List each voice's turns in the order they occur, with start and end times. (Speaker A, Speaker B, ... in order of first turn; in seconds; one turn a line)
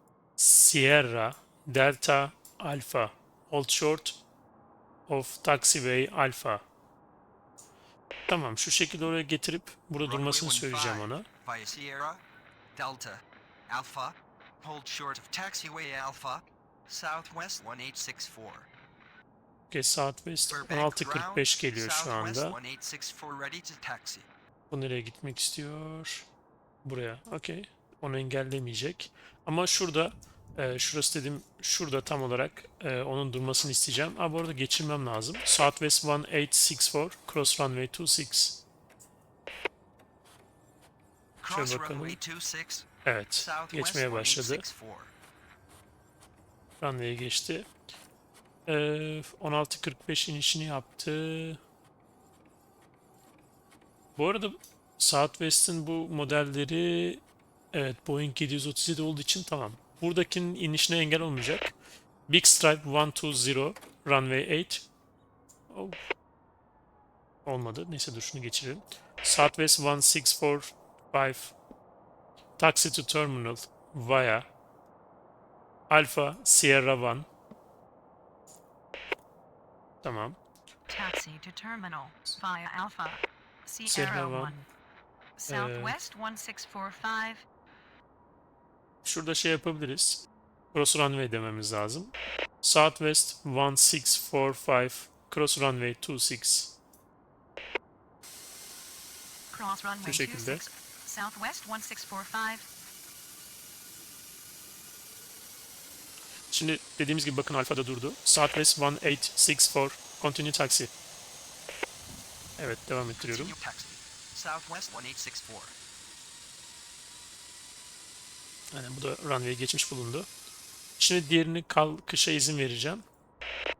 Speaker A: 0.4-4.2
Speaker A: 5.1-6.6
Speaker A: 8.3-11.2
Speaker B: 10.0-12.2
Speaker B: 12.7-18.7
Speaker A: 19.7-22.6
Speaker B: 20.4-24.3
Speaker A: 24.7-26.3
Speaker A: 26.8-38.6
Speaker B: 41.4-45.1
Speaker A: 41.4-42.2
Speaker A: 43.0-44.6
Speaker A: 46.8-47.7
Speaker A: 48.7-51.6
Speaker A: 54.1-61.7
Speaker A: 62.3-64.9
Speaker A: 65.7-66.0
Speaker A: 67.4-71.5
Speaker A: 72.6-74.5
Speaker A: 75.9-77.3
Speaker A: 80.0-80.4
Speaker C: 80.9-84.6
Speaker A: 83.9-84.7
Speaker C: 85.4-87.4
Speaker A: 85.5-86.0
Speaker A: 89.0-90.2
Speaker A: 90.7-96.8
Speaker C: 99.5-102.7
Speaker A: 100.0-100.6
Speaker A: 106.5-110.9
Speaker A: 112.6-113.5
Speaker B: 113.2-115.7
Speaker A: 118.7-120.3
Speaker A: 121.0-123.0